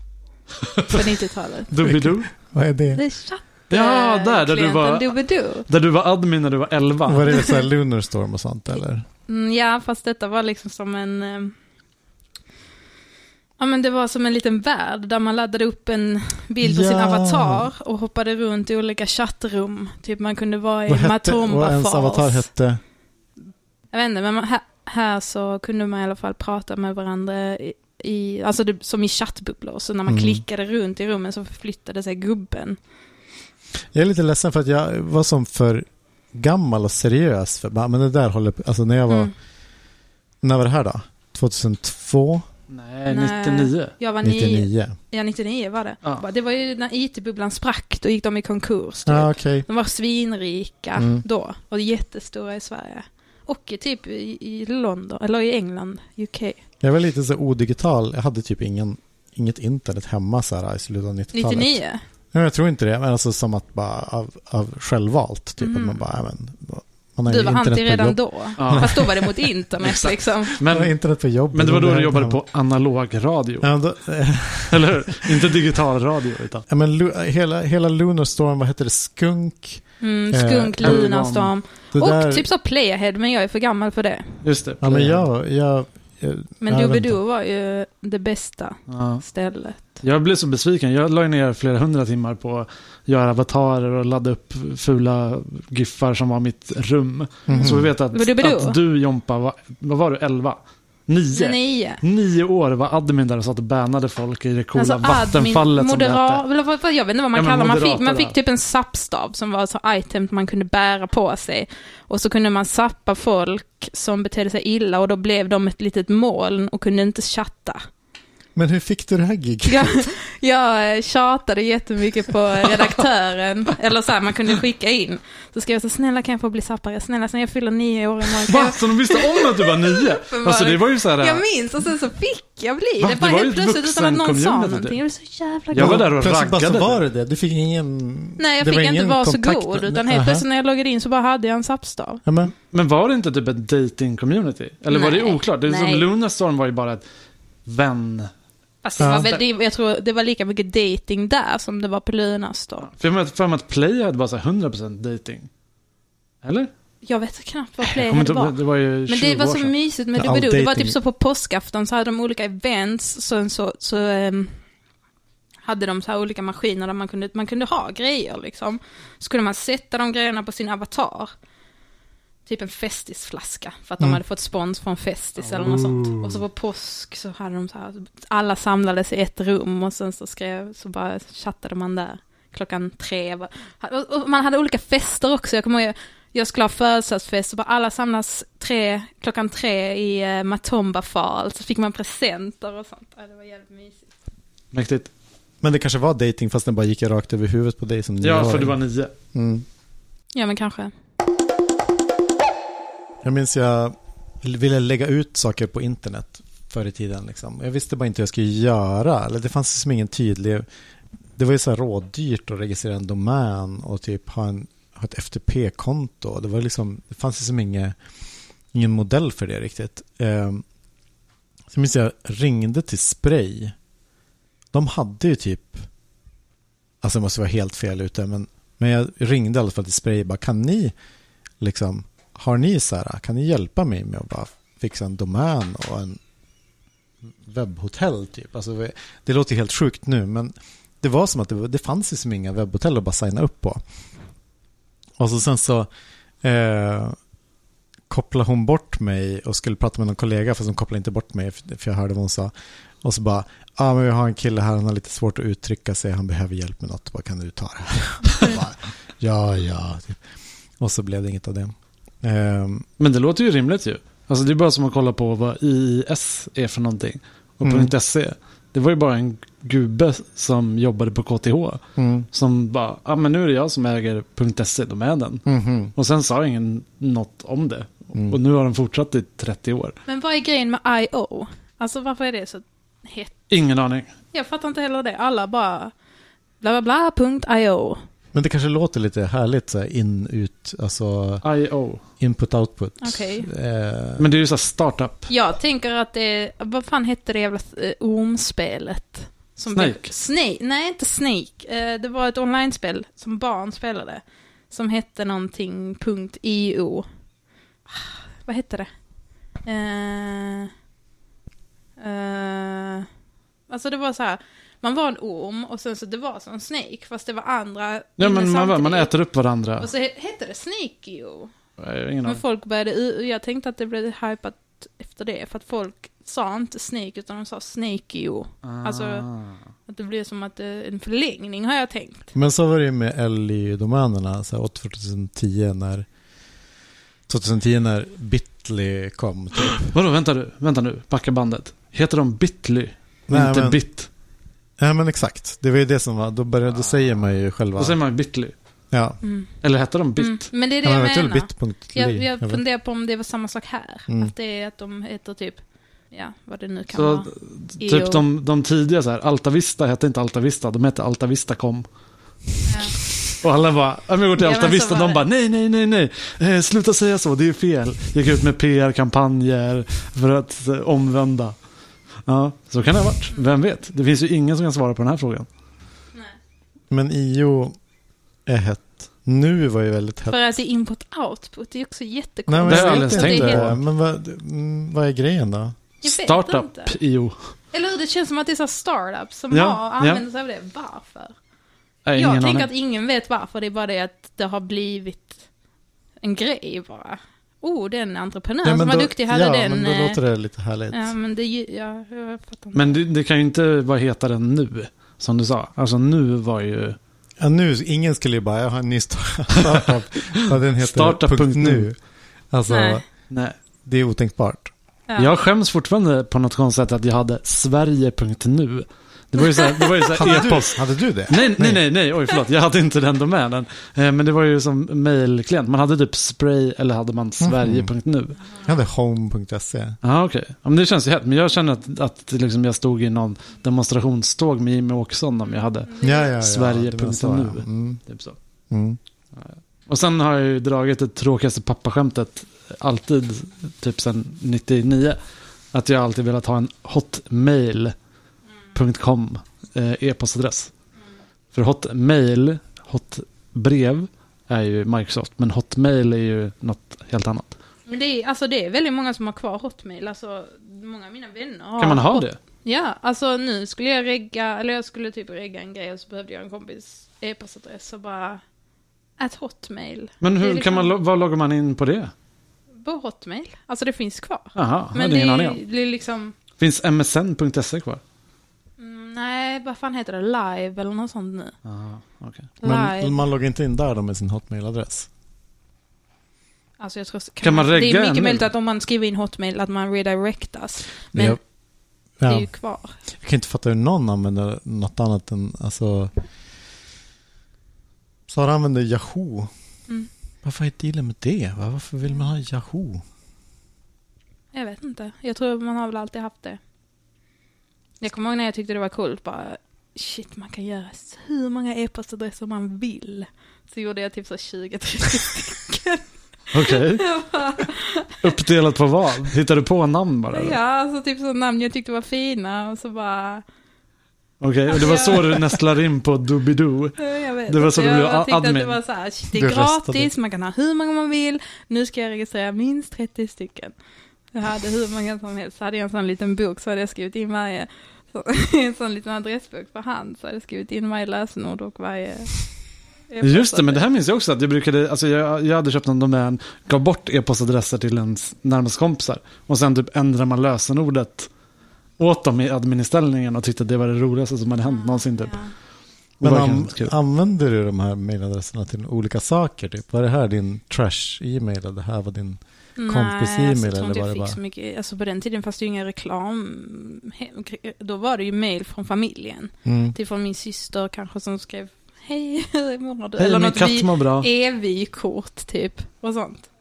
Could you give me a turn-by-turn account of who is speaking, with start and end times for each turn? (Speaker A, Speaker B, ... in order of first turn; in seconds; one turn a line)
Speaker A: 0.7-1.0
Speaker B: 0.9-1.7
Speaker A: 1.7-2.3
Speaker C: 1.8-3.0
Speaker B: 2.9-5.7
Speaker A: 3.7-7.3
Speaker C: 7.1-9.0
Speaker B: 7.3-7.6
Speaker B: 9.3-11.5
Speaker B: 13.6-22.5
Speaker C: 16.6-17.7
Speaker C: 20.9-22.8
Speaker B: 23.9-32.8
Speaker C: 30.1-30.4
Speaker C: 33.9-39.3
Speaker C: 40.4-42.5
Speaker A: 42.7-43.9
Speaker B: 43.1-56.6
Speaker C: 44.2-45.0
Speaker C: 49.0-49.6
Speaker C: 51.0-51.2
Speaker C: 56.8-61.8
Speaker B: 61.3-62.0
Speaker C: 62.3-69.2
Speaker B: 65.6-66.0
Speaker B: 67.2-70.6
Speaker A: 68.6-69.0
Speaker A: 69.8-71.0
Speaker C: 70.6-72.4
Speaker A: 71.5-73.7
Speaker C: 73.6-75.4
Speaker A: 74.7-76.6
Speaker C: 76.7-81.2
Speaker B: 80.0-84.4
Speaker A: 80.8-81.5
Speaker C: 81.9-82.5
Speaker A: 84.4-85.2
Speaker C: 84.8-87.2
Speaker B: 86.6-90.0
Speaker A: 88.9-89.2
Speaker A: 90.0-106.4
Speaker C: 97.5-97.9
Speaker B: 97.5-98.8
Speaker B: 101.3-102.0
Speaker B: 104.7-117.8
Speaker A: 107.3-108.3
Speaker C: 118.5-120.0
Speaker B: 119.6-136.1
Speaker A: 128.4-131.4
Speaker A: 133.0-135.0
Speaker A: 135.7-137.0
Speaker C: 135.7-140.4
Speaker B: 138.4-142.2
Speaker C: 142.2-142.5
Speaker A: 142.6-147.0
Speaker B: 144.9-146.1
Speaker A: 147.7-148.3
Speaker B: 148.8-152.9
Speaker C: 149.0-149.3
Speaker A: 152.9-155.5
Speaker A: 156.4-156.7
Speaker B: 157.0-164.6
Speaker A: 157.8-159.7
Speaker C: 160.2-160.9
Speaker B: 165.6-171.3
Speaker B: 172.4-194.1
Speaker A: 175.4-176.4
Speaker A: 194.7-195.1
Speaker C: 195.6-198.8
Speaker A: 198.2-199.1
Speaker C: 199.3-199.6
Speaker B: 200.3-200.9
Speaker C: 203.2-210.7
Speaker C: 211.3-217.9
Speaker C: 218.7-220.6
Speaker C: 221.7-223.7
Speaker C: 224.7-225.9
Speaker C: 227.0-230.9
Speaker C: 231.6-236.2
Speaker C: 237.3-243.8
Speaker C: 245.2-245.9
Speaker C: 246.4-247.2
Speaker C: 248.1-252.5
Speaker C: 253.0-260.2
Speaker C: 260.8-262.9
Speaker A: 263.0-271.8
Speaker C: 267.6-267.9
Speaker C: 272.0-272.3
Speaker A: 272.3-275.4
Speaker C: 275.4-275.9
Speaker A: 275.9-279.9
Speaker B: 280.1-283.4
Speaker A: 283.5-284.1
Speaker B: 284.3-285.9
Speaker B: 286.6-288.0
Speaker C: 288.3-291.4
Speaker A: 291.4-292.0
Speaker C: 292.2-294.3
Speaker B: 293.0-293.5
Speaker A: 294.2-295.3
Speaker B: 295.3-307.0
Speaker A: 299.7-300.1
Speaker B: 307.9-308.9
Speaker B: 309.6-310.7
Speaker B: 312.0-313.1
Speaker B: 313.7-319.1
Speaker A: 318.2-319.9
Speaker B: 319.8-321.5
Speaker A: 321.8-322.4
Speaker B: 322.2-329.2
Speaker A: 328.6-329.6
Speaker B: 329.9-332.3
Speaker C: 332.3-336.1
Speaker C: 337.3-339.9
Speaker A: 339.9-344.1
Speaker C: 343.3-343.8
Speaker C: 344.8-348.0
Speaker A: 346.7-347.2
Speaker A: 347.8-348.5
Speaker C: 348.9-349.2
Speaker B: 349.2-349.5
Speaker A: 349.6-350.5
Speaker B: 350.2-358.2
Speaker C: 350.8-352.6
Speaker C: 354.1-354.3
Speaker A: 356.9-361.9
Speaker B: 362.6-363.0
Speaker A: 363.4-371.6
Speaker B: 364.4-365.2
Speaker A: 372.2-375.5
Speaker C: 376.9-377.7
Speaker C: 378.4-380.4
Speaker B: 380.3-383.7
Speaker C: 382.5-385.8
Speaker A: 382.6-383.8
Speaker B: 386.0-386.9
Speaker A: 386.0-387.4
Speaker B: 387.7-391.3
Speaker A: 389.5-390.2
Speaker A: 392.0-392.7
Speaker B: 392.1-395.4
Speaker B: 396.2-400.2
Speaker C: 398.6-401.1
Speaker B: 400.9-403.0
Speaker A: 402.7-407.0
Speaker C: 407.4-412.0
Speaker A: 410.8-411.9
Speaker C: 412.5-413.0
Speaker B: 412.7-413.0
Speaker A: 413.3-413.6
Speaker C: 413.8-414.7
Speaker A: 415.1-428.4
Speaker C: 420.1-421.9
Speaker C: 427.4-427.9
Speaker C: 428.6-430.0
Speaker A: 430.0-438.4
Speaker B: 435.9-436.3
Speaker C: 436.0-438.0
Speaker C: 438.7-439.0
Speaker A: 439.4-445.2
Speaker A: 445.7-447.9
Speaker A: 448.7-450.7
Speaker A: 451.5-457.6
Speaker B: 457.9-468.4
Speaker A: 461.8-462.4
Speaker B: 469.2-470.9
Speaker A: 470.2-472.1
Speaker B: 472.8-476.4
Speaker A: 474.5-475.6
Speaker A: 476.6-478.0
Speaker B: 478.8-481.5
Speaker A: 481.6-482.5
Speaker B: 482.6-483.2
Speaker C: 482.6-485.1
Speaker B: 486.8-491.4
Speaker A: 487.4-488.5
Speaker C: 491.1-491.4
Speaker C: 492.2-492.5
Speaker B: 492.2-492.9
Speaker C: 493.1-496.1
Speaker C: 498.3-499.5
Speaker C: 500.4-503.0
Speaker B: 504.5-506.6
Speaker B: 508.0-516.0
Speaker A: 516.5-517.0
Speaker B: 516.6-518.2
Speaker A: 518.2-520.6
Speaker B: 520.3-523.4
Speaker A: 524.4-528.8
Speaker B: 524.7-525.6
Speaker B: 527.0-533.7
Speaker C: 529.3-530.1
Speaker B: 534.3-542.4
Speaker B: 543.1-543.8
Speaker A: 543.2-551.3
Speaker A: 552.0-555.4
Speaker B: 554.6-555.5
Speaker A: 556.2-556.9
Speaker C: 556.2-564.4
Speaker B: 562.8-576.5
Speaker C: 569.6-569.9
Speaker A: 573.2-574.3